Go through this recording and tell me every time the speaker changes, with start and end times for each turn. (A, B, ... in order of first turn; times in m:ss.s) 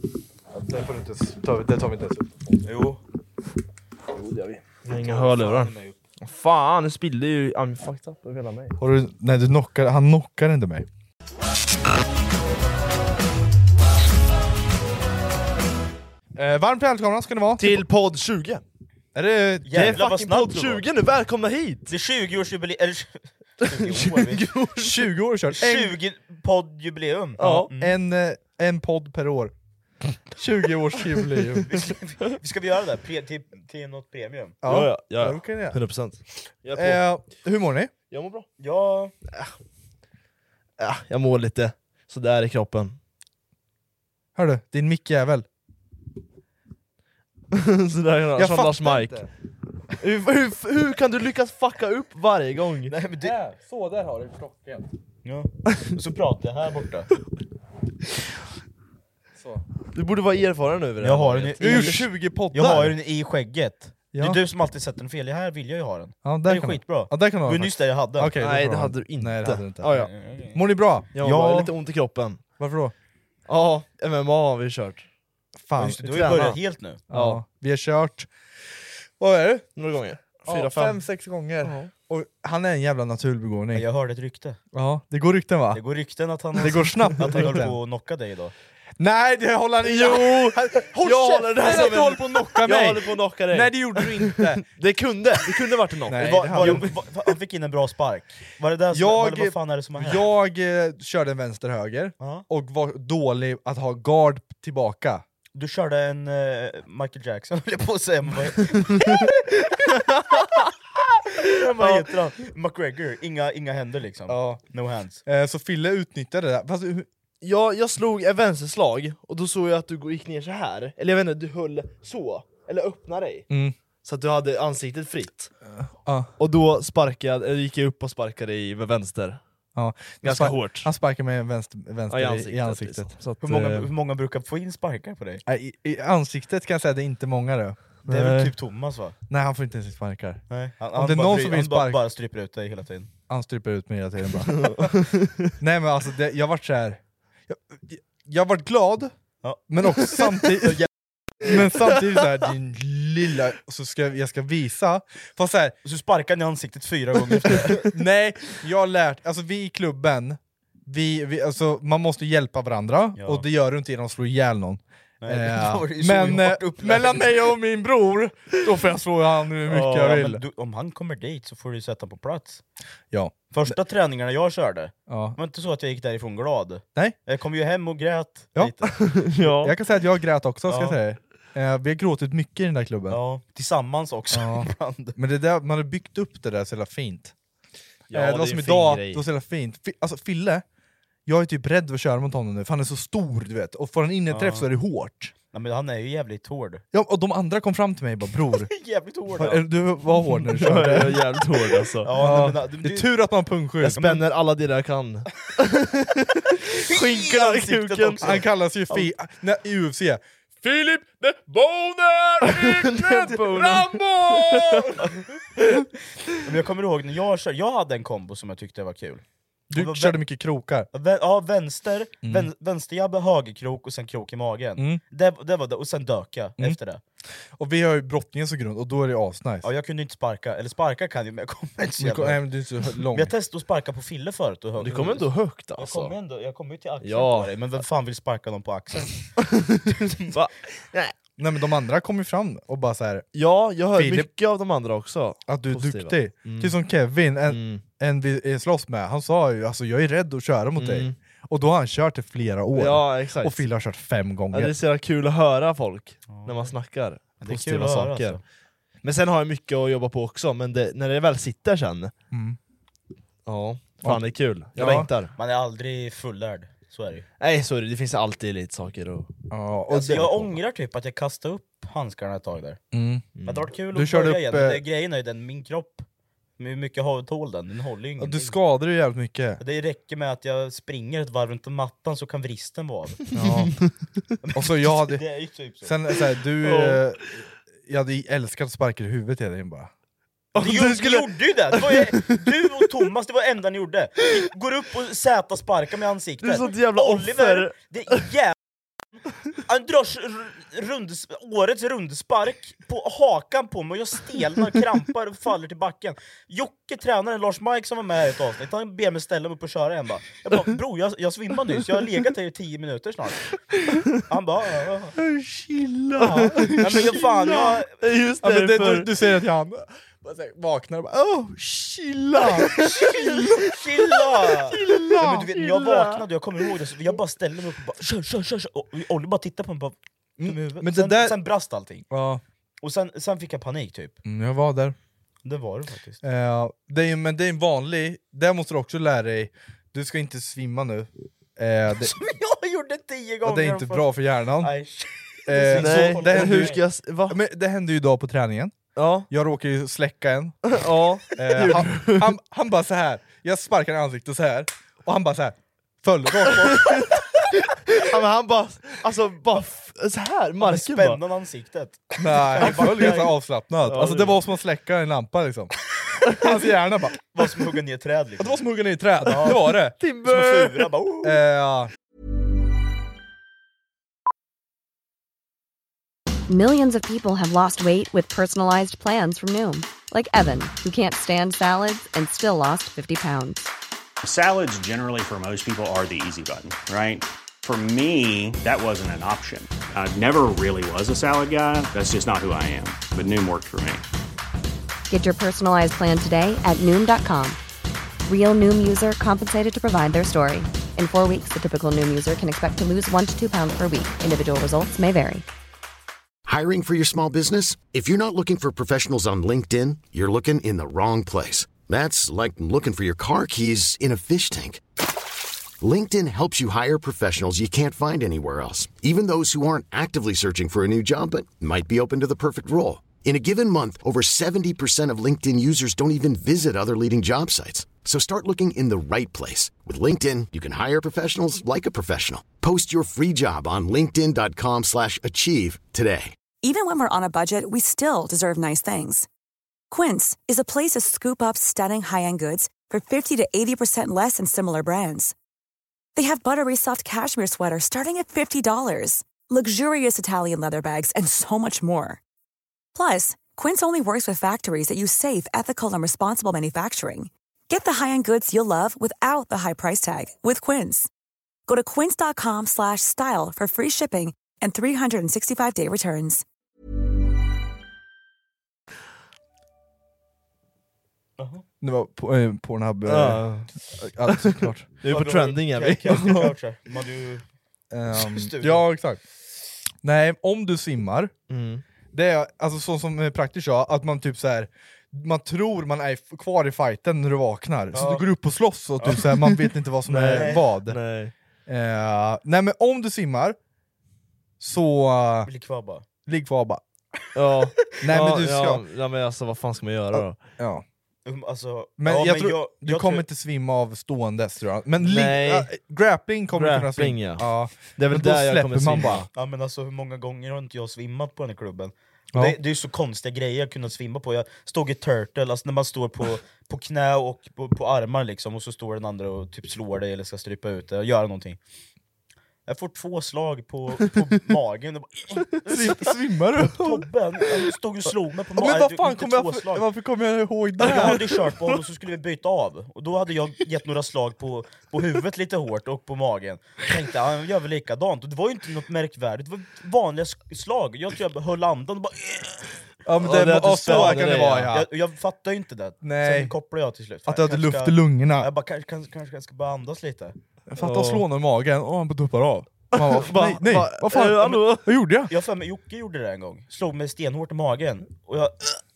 0:00.5-0:02.7 A
0:02.6-0:03.0 B
0:04.3-0:04.6 A
0:04.8-0:08.8 C
0:05.0-0:06.0 B
0:08.8-0:10.9 A
0:16.4-0:17.8 A
0:17.6-0:18.6 C
0:19.1-0:20.0 A
0:19.6-0:20.8 B
0:19.7-0:21.9 C
0:21.9-0:24.5 B
0:23.6-0:25.1 C
0:24.8-0:25.9 A
0:25.5-0:27.9 B
0:27.4-0:27.7 C
0:27.4-0:29.5 A
0:30.3-0:31.7 A
0:31.7-0:34.6 B
0:34.6-0:35.8 A
0:34.6-0:37.0 C
0:36.7-0:37.9 A
0:38.1-0:38.5 C
0:38.6-0:39.1 B
0:40.8-0:43.0 C
0:44.3-0:45.4 A
0:47.5-0:49.2 C
0:48.3-0:49.3 A
0:50.0-0:52.9 C
0:52.9-0:53.4 B
0:53.2-0:54.9 A
0:55.2-0:57.1 B
0:59.9-1:02.1 C
1:01.0-1:08.3 B
1:01.6-1:03.0 A
1:04.1-1:04.4 A
1:06.2-1:11.1 A
1:08.4-1:10.1 C
1:09.9-1:10.6 B
1:11.1-1:11.7 B
1:11.2-1:12.4 C
1:12.6-1:12.9 A
1:13.5-1:15.0 C
1:15.6-1:16.5 A
1:15.8-1:17.0 B
1:16.0-1:16.6 C
1:17.1-1:17.4 C
1:17.1-1:18.3 A
1:19.2-1:19.7 A
1:19.8-1:21.0 C
1:20.5-1:23.9 A
1:21.6-1:21.9 C
1:23.7-1:24.6 B
1:24.7-1:25.8 A
1:25.7-1:28.5 B
1:26.6-1:27.8 A
1:26.6-1:27.5 C
1:29.0-1:34.6 A
1:29.8-1:37.0 C
1:36.1-1:36.9 A
1:36.2-1:40.3 B
1:38.9-1:45.2 A
1:42.2-1:42.4 B
1:45.6-1:50.6 B
1:48.8-1:49.1 C
1:50.1-1:50.4 C
1:51.4-1:55.2 B
1:54.3-1:54.6 A
1:55.3-1:57.1 A
1:57.4-2:03.5 C
2:03.5-2:03.7 A
2:04.0-2:05.5 C
2:05.7-2:06.3 A
2:06.4-2:09.4 C
2:09.8-2:13.1 A
2:10.2-2:10.9 C
2:12.1-2:13.9 C
2:13.4-2:15.4 B
2:15.4-2:17.8 A
2:18.1-2:18.5 C
2:18.1-2:19.1 B
2:19.3-2:22.0 A
2:20.5-2:23.1 B
2:23.3-2:25.0 A
2:24.6-2:25.5 C
2:25.6-2:29.1 A
2:29.7-2:30.9 A
2:31.4-2:35.8 A
2:35.8-2:37.9 B
2:37.8-2:50.4 A
2:43.2-2:43.4 B
2:45.2-2:47.3 B
2:49.7-2:50.1 C
2:49.9-2:52.6 B
2:53.1-2:53.8 A
2:53.5-2:58.9 B
2:55.1-2:55.4 A
2:58.9-2:59.7 C
2:59.6-3:03.2 A
3:00.7-3:01.0 B
3:03.1-3:05.2 B
3:04.3-3:07.3 A
3:08.1-3:09.2 C
3:08.1-3:10.6 A
3:11.2-3:15.3 A
3:14.3-3:14.7 B
3:15.5-3:16.8 B
3:16.9-3:18.7 A
3:18.7-3:19.6 B
3:19.3-3:21.4 A
3:20.4-3:22.1 C
3:22.0-3:23.1 B
3:22.1-3:24.1 A
3:23.8-3:24.2 B
3:23.8-3:28.4 C
3:26.7-3:29.1 B
3:28.2-3:35.1 A
3:32.4-3:35.0 C
3:36.4-3:39.2 B
3:39.7-3:40.9 A
3:39.7-3:40.2 B
3:40.9-3:47.0 B
3:42.2-3:42.5 A
3:47.6-3:49.7 A
3:49.6-3:52.4 B
3:52.0-3:53.3 A
3:53.1-3:59.4 B
3:54.8-3:56.1 C
3:57.0-3:57.5 C
3:59.4-4:01.2 C
4:01.4-4:03.2 A
4:03.3-4:06.7 C
4:03.9-4:04.3 A
4:05.5-4:14.8 A
4:07.5-4:07.8 C
4:10.8-4:11.2 C
4:12.8-4:13.6 C
4:14.5-4:18.4 C
4:16.3-4:16.7 B
4:17.4-4:18.4 B
4:19.0-4:22.1 C
4:22.3-4:22.6 A
4:23.4-4:25.3 C
4:24.0-4:25.1 A
4:25.4-4:27.2 B
4:27.4-4:29.3 C
4:29.5-4:30.5 A
4:29.9-4:32.8 B
4:32.9-4:33.3 A
4:33.4-4:33.6 C
4:33.4-4:36.0 B
4:33.9-4:34.8 A
4:36.6-4:38.6 B
4:38.2-4:39.6 A
4:39.6-4:43.2 B
4:43.3-4:43.8 A
4:44.4-4:46.0 B
4:44.5-4:45.2 A
4:45.8-4:49.9 A
4:46.6-4:47.0 C
4:50.5-4:52.4 C
4:50.6-4:58.5 B
4:56.4-4:57.8 C
4:59.6-5:13.5 B
5:14.1-5:15.1 B
5:15.2-5:17.2 A
5:16.2-5:19.1 C
5:16.3-5:17.9 B
5:18.4-5:23.8 A
5:22.5-5:23.5 C
5:22.8-5:32.0 B
5:24.7-5:25.5 A
5:24.7-5:26.2 C
5:30.4-5:31.4 A
5:32.1-5:32.4 A
5:32.8-5:34.2 B
5:34.2-5:34.9 A
5:35.4-5:36.2 B
5:36.2-5:42.2 A
5:42.0-5:46.8 B
5:43.4-5:44.7 A
5:45.4-5:50.8 A
5:45.6-5:47.4 C
5:49.0-5:49.3 C
5:50.7-5:52.3 C
5:51.3-5:57.0 A
5:56.4-5:57.1 B
5:58.0-6:01.2 C
6:00.6-6:03.3 B
6:02.2-6:05.7 A
6:02.6-6:03.2 C
6:03.8-6:04.4 C
6:06.3-6:07.2 A
6:07.3-6:08.6 B
6:08.4-6:10.0 A
6:09.2-6:11.4 B
6:10.0-6:10.9 C
6:11.2-6:11.9 A
6:16.5-6:23.7 D
6:24.2-6:34.0 E
6:35.1-6:37.6 D
6:38.2-6:45.4 D
6:46.4-6:54.8 F
6:55.8-7:16.4 F
7:16.6-7:19.3 G
7:19.9-7:25.3 G
7:26.1-7:32.2 G
7:32.9-7:41.1 G
7:41.7-7:46.4 G
7:51.4-7:51.6 B
7:51.8-7:54.9 A
7:53.1-7:53.7 C
7:54.3-7:56.5 C
7:55.1-7:57.4 B
7:57.9-7:59.2 A
7:58.1-7:58.8 B
8:00.0-8:01.3 A
8:01.5-8:01.8 C
8:02.1-8:11.0 A
8:07.9-8:08.2 C
8:07.9-8:08.2 B
8:09.0-8:09.3 B
8:10.1-8:11.3 C
8:10.2-8:10.6 B
8:11.7-8:13.6 A
8:14.6-8:15.5 A
8:15.4-8:16.0 B
8:16.2-8:16.8 A
8:17.3-8:20.4 C
8:18.0-8:18.8 A
8:20.1-8:20.8 A
8:21.2-8:23.2 B
8:22.0-8:29.3 A
8:25.0-8:25.7 C
8:26.5-8:29.3 C
8:29.3-8:41.6 B
8:42.7-8:49.9 B
8:45.7-8:47.1 A
8:48.6-8:51.3 A
8:50.8-8:51.6 C
8:50.8-9:02.7 B
9:03.0-9:04.9 A
9:03.2-9:04.7 C
9:03.8-9:10.4 B
9:06.0-9:06.5 A
9:07.3-9:08.5 A
9:10.7-9:15.3 A
9:10.8-9:11.2 C
9:12.9-9:14.9 C
9:15.3-9:18.8 B